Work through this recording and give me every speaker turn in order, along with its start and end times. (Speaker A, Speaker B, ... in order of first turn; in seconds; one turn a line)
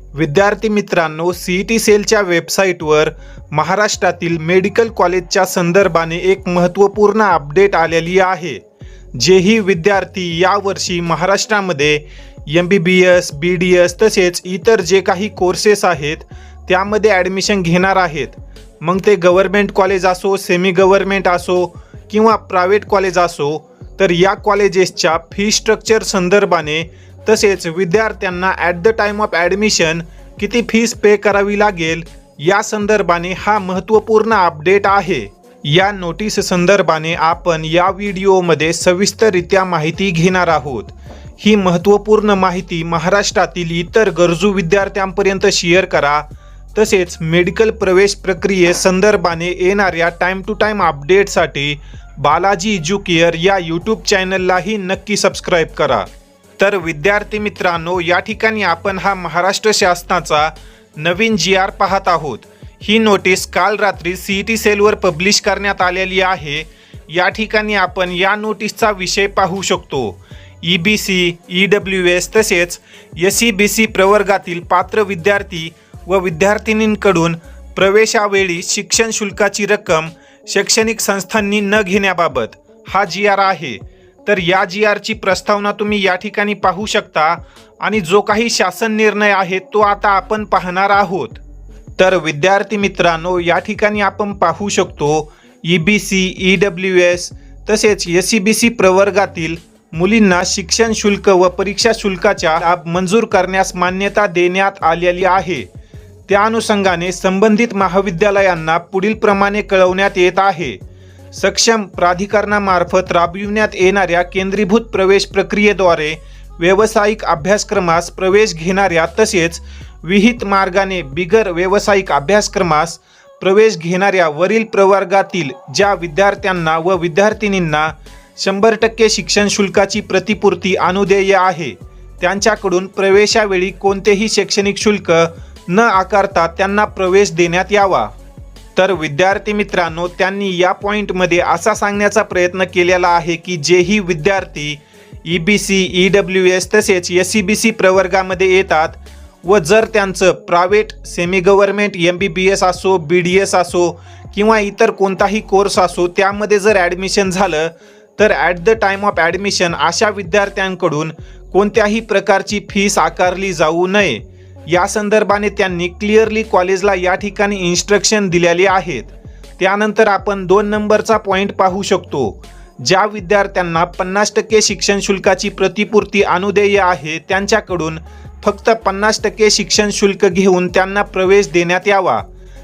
Speaker A: 0.1-8.6
Speaker A: 9.1-56.1
Speaker A: 56.6-91.4
Speaker A: 92.0-105.7
Speaker A: 106.3-110.8
Speaker A: 111.3-138.1
Speaker A: 138.8-182.2